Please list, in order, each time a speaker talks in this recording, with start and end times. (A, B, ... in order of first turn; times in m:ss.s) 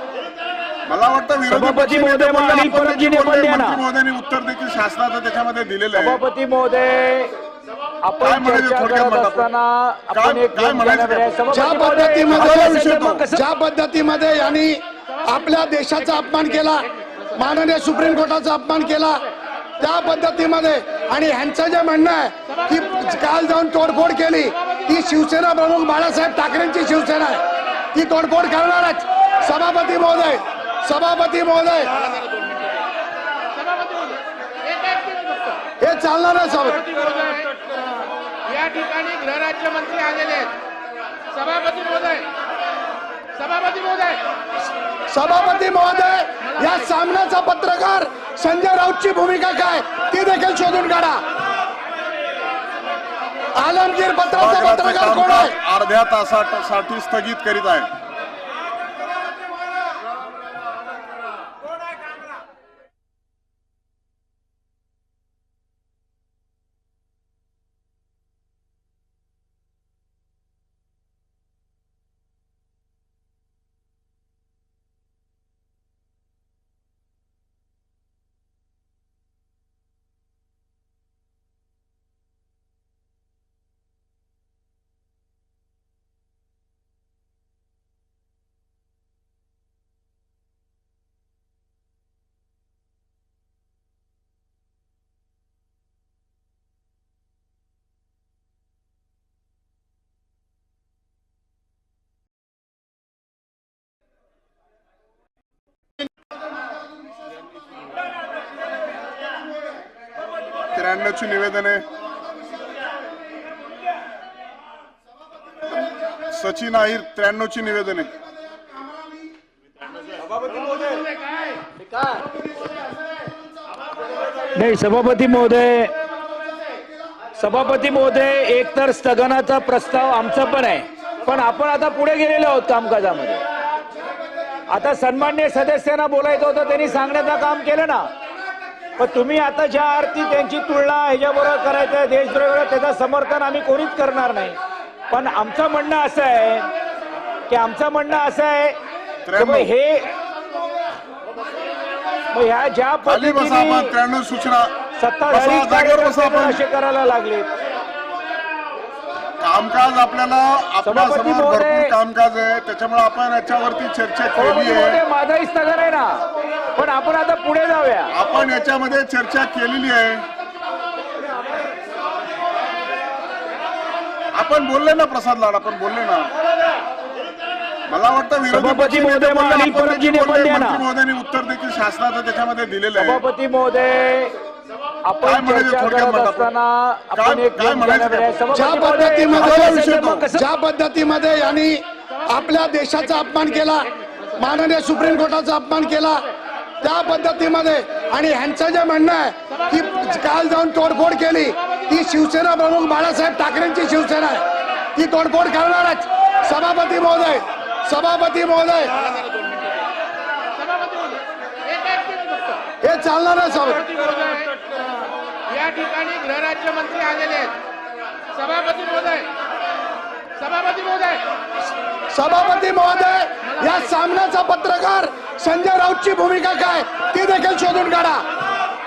0:00.9-0:06.2 A
0:01.5-0:03.8 B
0:05.9-0:07.3 B
0:08.0-0:13.4 B
0:08.2-0:09.5 A
0:10.1-0:11.4 A
0:11.5-0:19.3 C
0:12.3-0:13.2 A
0:19.8-0:27.4 C
0:27.9-0:32.2 C
0:33.8-0:34.2 D
0:34.7-0:35.5 D
0:35.8-0:37.0 C
0:37.0-0:37.5 D
0:38.5-0:40.5 D
0:41.3-0:42.3 D
0:43.4-0:44.2 D
0:45.1-0:51.2 C
0:53.6-0:55.6 C
0:54.3-0:57.9 A
1:50.7-1:51.8 A
1:56.3-1:58.1 A
2:04.6-2:06.0 B
2:07.4-2:13.4 B
2:14.7-2:18.1 B
2:19.0-2:24.6 B
2:25.1-2:26.7 B
2:27.5-2:28.8 B
2:29.3-2:29.7 A
2:29.4-2:30.1 B
2:32.3-2:33.9 B
2:33.1-2:34.7 A
2:35.0-2:37.5 B
2:35.3-2:36.6 A
2:39.4-2:45.0 A
2:40.8-2:41.9 B
2:44.4-2:48.1 B
2:48.2-2:50.2 A
2:54.4-2:56.3 A
2:57.9-3:03.2 A
2:58.5-3:00.8 B
3:03.0-3:04.3 B
3:05.1-3:10.4 B
3:05.2-3:06.5 A
3:07.2-3:08.4 A
3:08.5-3:16.3 C
3:09.3-3:10.2 A
3:16.8-3:24.4 C
3:25.0-3:29.2 C
3:30.8-3:32.6 D
3:32.8-3:33.9 C
3:34.0-3:34.6 D
3:35.5-3:37.5 D
3:38.4-3:39.3 D
3:40.5-3:41.2 D
3:42.1-3:48.2 C